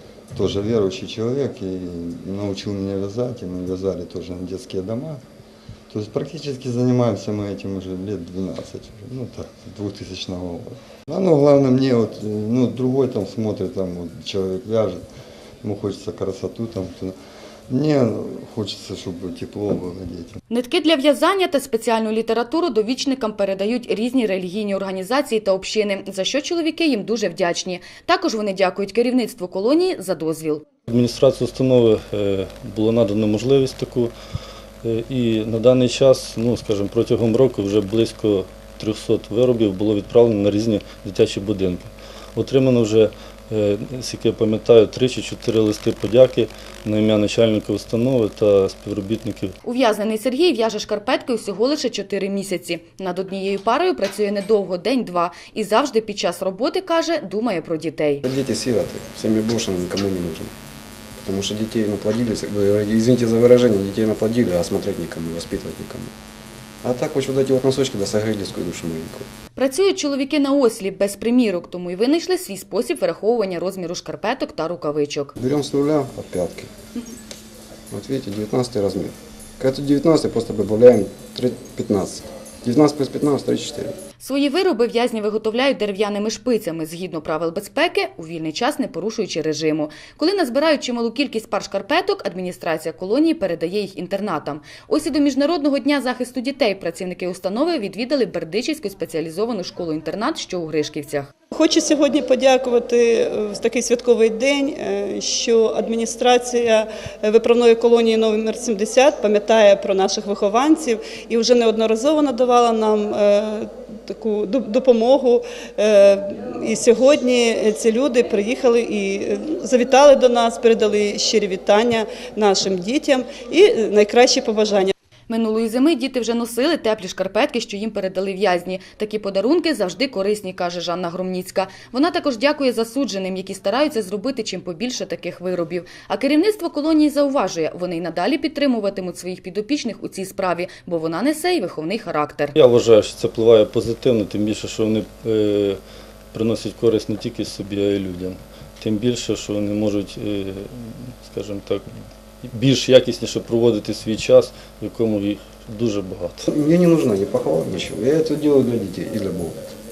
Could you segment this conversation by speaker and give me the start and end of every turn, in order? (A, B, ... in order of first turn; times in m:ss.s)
0:00.3-0:05.2 A
0:05.9-0:15.0 A
0:15.6-0:17.1 A
0:17.7-0:20.4 A
0:20.5-0:30.6 B
0:30.9-0:34.1 C
0:34.8-0:49.5 C
0:49.6-0:58.3 B
0:58.3-1:00.5 D
1:01.2-1:06.1 D
1:06.8-1:09.3 D
1:09.6-1:15.3 B
1:15.4-1:16.7 D
1:17.9-1:24.0 D
1:24.2-1:41.3 B
1:41.5-2:04.9 E
2:05.3-2:22.6 B
2:22.6-2:25.8 C
2:26.3-2:36.4 C
2:36.4-2:39.6 D